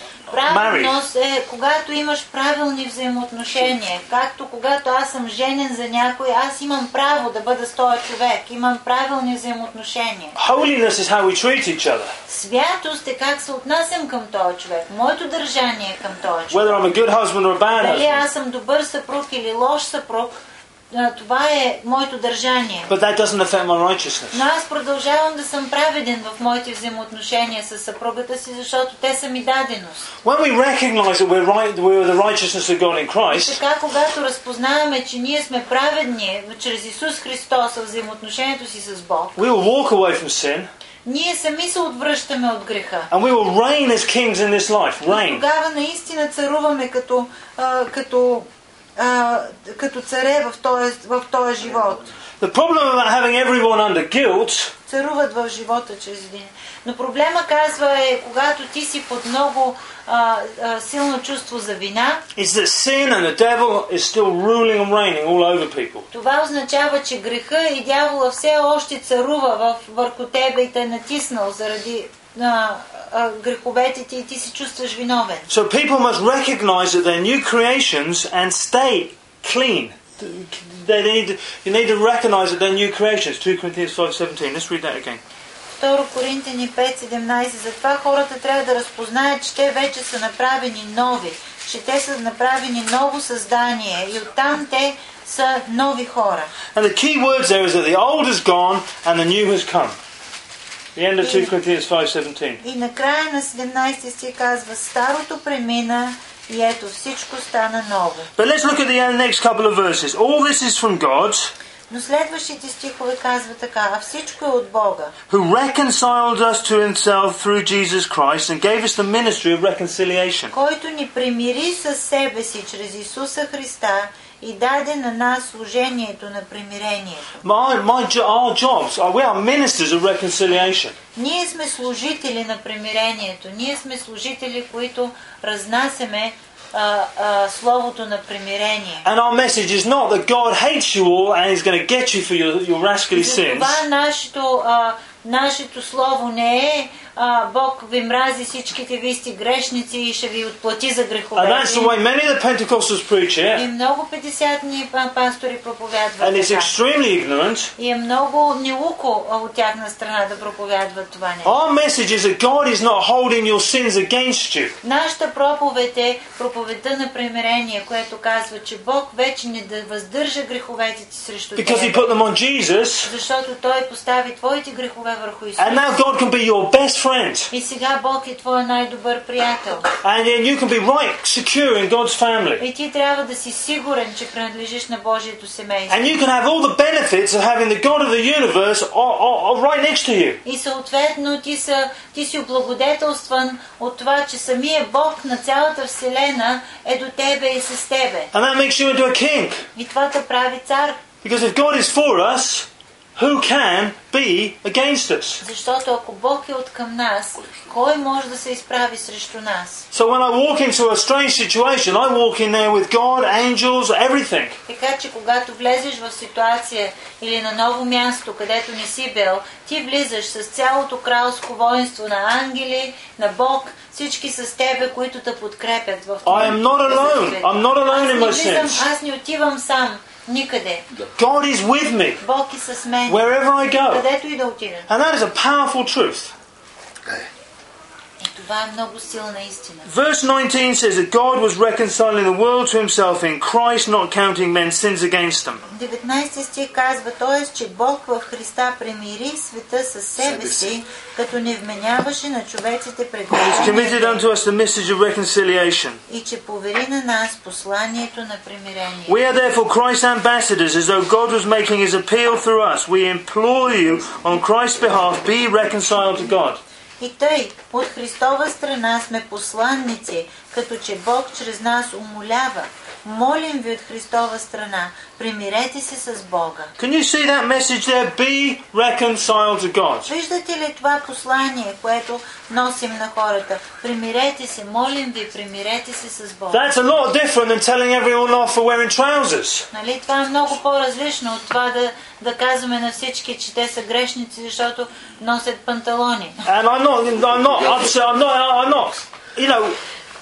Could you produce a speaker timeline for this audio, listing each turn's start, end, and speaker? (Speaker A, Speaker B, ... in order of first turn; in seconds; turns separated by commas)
Speaker A: 0.3-10.3, Speaker B: 0.4-1.0, Speaker B: 10.3-12.1, Speaker A: 12.3-16.9, Speaker B: 16.5-18.2, Speaker A: 17.8-20.4, Speaker A: 20.9-22.9, Speaker B: 22.9-24.4, Speaker A: 24.3-30.1, Speaker B: 30.2-33.6, Speaker A: 33.3-39.4, Speaker B: 39.4-40.7, Speaker A: 41.0-43.1, Speaker B: 43.1-45.4, Speaker A: 45.0-52.0, Speaker B: 52.4-54.7, Speaker A: 54.9-62.2, Speaker B: 62.4-66.1, Speaker A: 66.1-75.5, Speaker B: 75.5-85.2, Speaker A: 85.8-96.5, Speaker B: 96.7-100.0, Speaker B: 101.0-102.6, Speaker A: 101.2-101.5, Speaker A: 102.6-108.3, Speaker B: 108.4-111.5, Speaker A: 111.9-115.1, Speaker B: 115.3-120.5, Speaker A: 120.5-127.4, Speaker B: 127.4-130.9, Speaker A: 131.2-139.1, Speaker B: 139.0-143.8, Speaker A: 143.1-151.9, Speaker B: 151.3-153.6, Speaker A: 153.5-156.8, Speaker B: 156.2-157.7, Speaker A: 157.8-161.6, Speaker B: 161.4-164.8, Speaker A: 164.8-172.2, Speaker B: 171.6-173.1, Speaker A: 173.0-175.9, Speaker B: 175.6-177.5, Speaker A: 177.5-179.9, Speaker B: 180.0-182.6, Speaker A: 182.6-186.1, Speaker B: 185.9-190.4, Speaker A: 190.4-198.3, Speaker B: 198.3-199.7, Speaker A: 199.7-201.0, Speaker B: 201.2-205.4, Speaker A: 205.4-209.8, Speaker B: 209.9-214.6, Speaker A: 214.7-230.8, Speaker B: 226.2-228.8, Speaker B: 231.2-232.2, Speaker A: 232.2-234.9, Speaker B: 233.1-234.0, Speaker B: 234.9-236.3, Speaker A: 238.2-239.9, Speaker B: 239.8-245.6, Speaker A: 245.7-254.2, Speaker B: 253.3-256.0, Speaker A: 256.1-259.2, Speaker B: 259.1-266.6, Speaker A: 267.0-276.7, Speaker B: 276.8-280.1, Speaker A: 280.1-286.6, Speaker B: 286.5-289.7, Speaker A: 289.7-296.4, Speaker B: 296.4-299.8